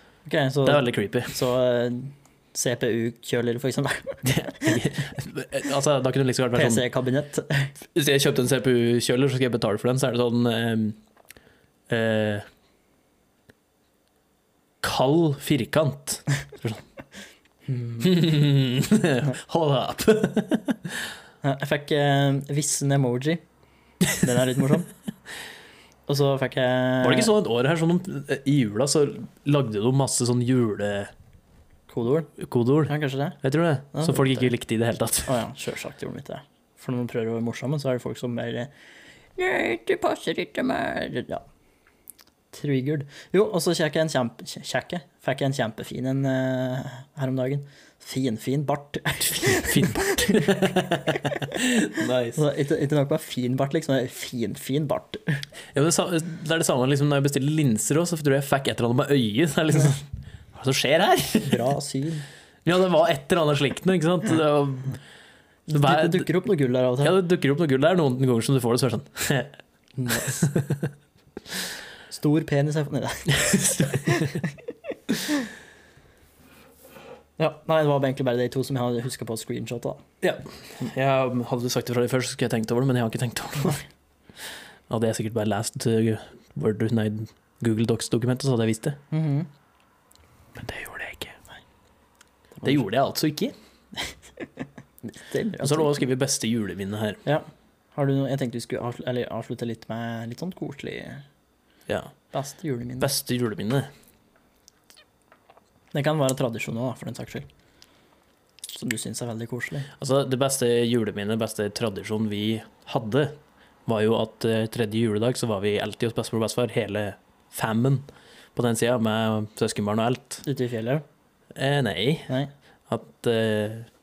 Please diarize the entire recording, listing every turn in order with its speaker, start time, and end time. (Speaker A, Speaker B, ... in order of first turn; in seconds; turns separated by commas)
Speaker A: 0.2-4.9, Speaker B: 0.6-1.4, Speaker B: 4.2-6.9, Speaker A: 6.5-7.7, Speaker B: 7.9-11.0, Speaker B: 11.9-12.4, Speaker B: 14.8-16.8, Speaker A: 17.7-18.1, Speaker B: 18.0-21.1, Speaker A: 21.4-23.4, Speaker A: 24.1-24.9, Speaker A: 26.1-27.3, Speaker B: 27.0-31.1, Speaker A: 31.9-32.3, Speaker B: 32.4-35.4, Speaker A: 32.9-33.4, Speaker A: 33.9-34.5, Speaker A: 35.3-38.7, Speaker A: 39.4-41.4, Speaker A: 42.5-55.4, Speaker B: 49.3-52.4, Speaker B: 55.7-61.7, Speaker A: 61.4-62.2, Speaker B: 62.6-65.0, Speaker A: 65.7-67.2, Speaker B: 65.7-66.3, Speaker B: 67.0-69.5, Speaker A: 70.0-70.5, Speaker B: 70.2-70.9, Speaker A: 72.1-74.5, Speaker B: 73.3-74.4, Speaker A: 77.4-80.0, Speaker B: 80.2-83.8, Speaker B: 84.9-89.0, Speaker A: 89.1-89.5, Speaker B: 90.5-91.4, Speaker A: 92.6-92.8, Speaker B: 92.6-93.5, Speaker A: 95.0-96.0, Speaker B: 95.6-97.2, Speaker A: 97.2-101.2, Speaker B: 101.9-102.1, Speaker A: 102.3-103.1, Speaker B: 103.0-103.9, Speaker A: 105.9-107.5, Speaker A: 108.7-109.9, Speaker B: 110.0-120.4, Speaker A: 120.4-121.0, Speaker B: 121.5-122.4, Speaker B: 122.9-123.9